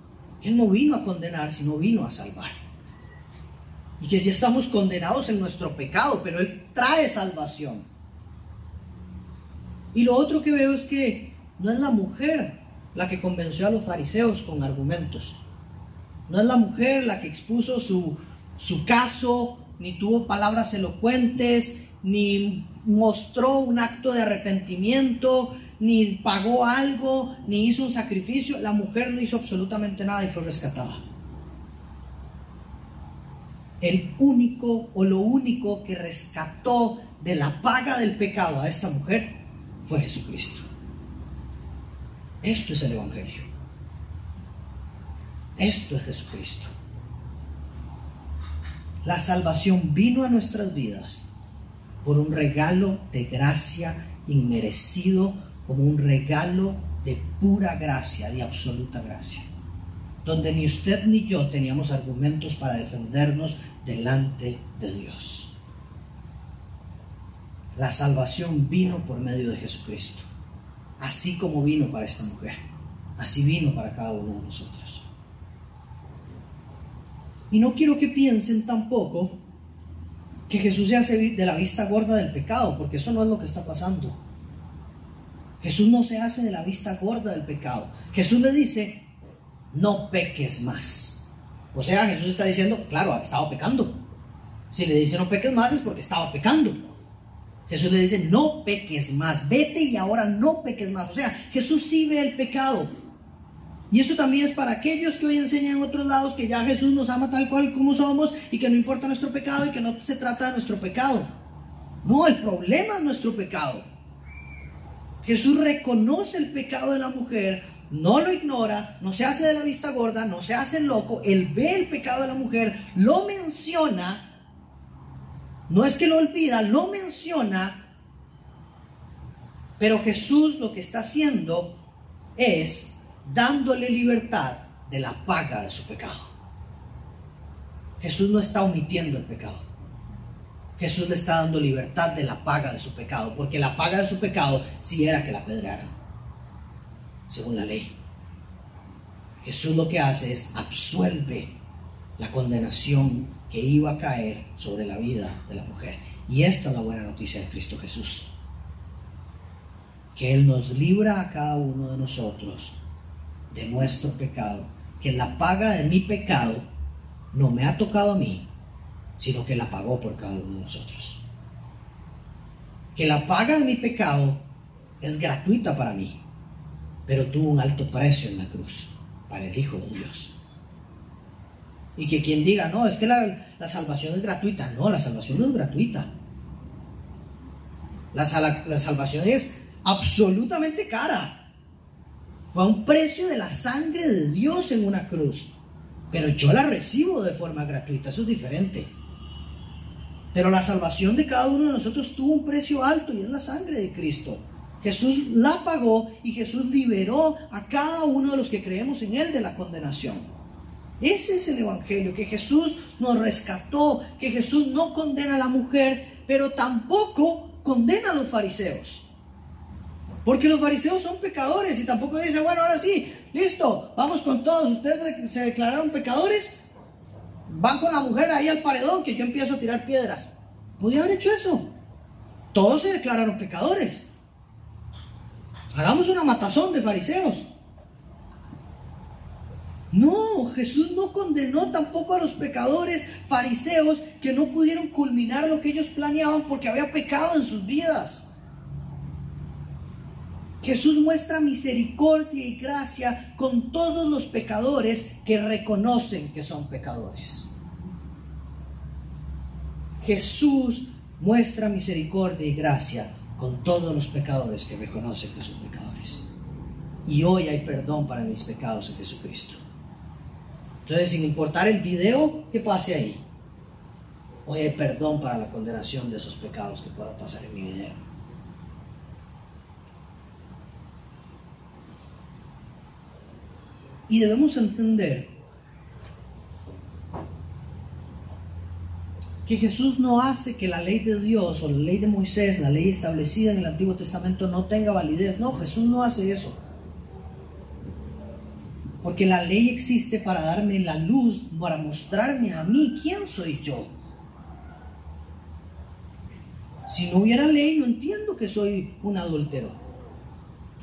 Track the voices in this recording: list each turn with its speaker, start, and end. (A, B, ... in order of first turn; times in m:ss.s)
0:00.4-0:02.6 A
0:04.0-0:07.9 A
0:09.9-0:15.4 A
0:16.3-0:31.0 A
0:33.8-0:39.3 A
0:39.8-0:40.7 A
0:42.4-0:43.5 A
0:45.6-0:46.7 A
0:49.0-0:51.3 A
0:52.0-0:59.5 A
1:00.2-1:05.5 A
1:07.8-1:10.3 A
1:11.0-1:12.6 A
1:13.2-1:15.1 A
1:17.5-1:19.4 A
1:20.5-1:24.2 A
1:25.6-1:29.0 A
1:29.7-1:34.0 A
1:34.7-1:36.9 A
1:37.7-1:42.9 A
1:43.9-1:51.3 A
1:52.0-1:53.9 A
1:55.2-2:04.2 A
2:05.7-2:07.8 A
2:09.8-2:11.8 A
2:12.4-2:16.3 A
2:18.0-2:19.6 A
2:20.8-2:25.9 A
2:27.3-2:28.0 A
2:29.4-2:31.5 A
2:32.2-2:38.3 A
2:40.2-2:42.8 A
2:43.5-2:46.7 A
2:47.3-2:48.5 A
2:49.2-2:51.2 A
2:53.0-2:54.4 A
2:55.0-2:56.2 A
2:57.1-3:00.3 A
3:02.0-3:06.1 A
3:08.1-3:11.4 A
3:12.5-3:15.6 A
3:16.1-3:18.9 A
3:20.3-3:30.3 A
3:31.0-3:39.1 A
3:40.2-3:46.6 A
3:47.5-3:51.7 A
3:52.5-3:54.1 A
3:55.7-3:57.5 A
3:59.9-4:08.3 A
4:10.6-4:17.5 A
4:20.0-4:26.2 A
4:27.0-4:29.6 A
4:30.8-4:33.2 A
4:34.5-4:38.0 A
4:44.1-4:45.3 A
4:49.4-4:56.6 A
4:59.0-5:03.9 A
5:06.9-5:09.8 A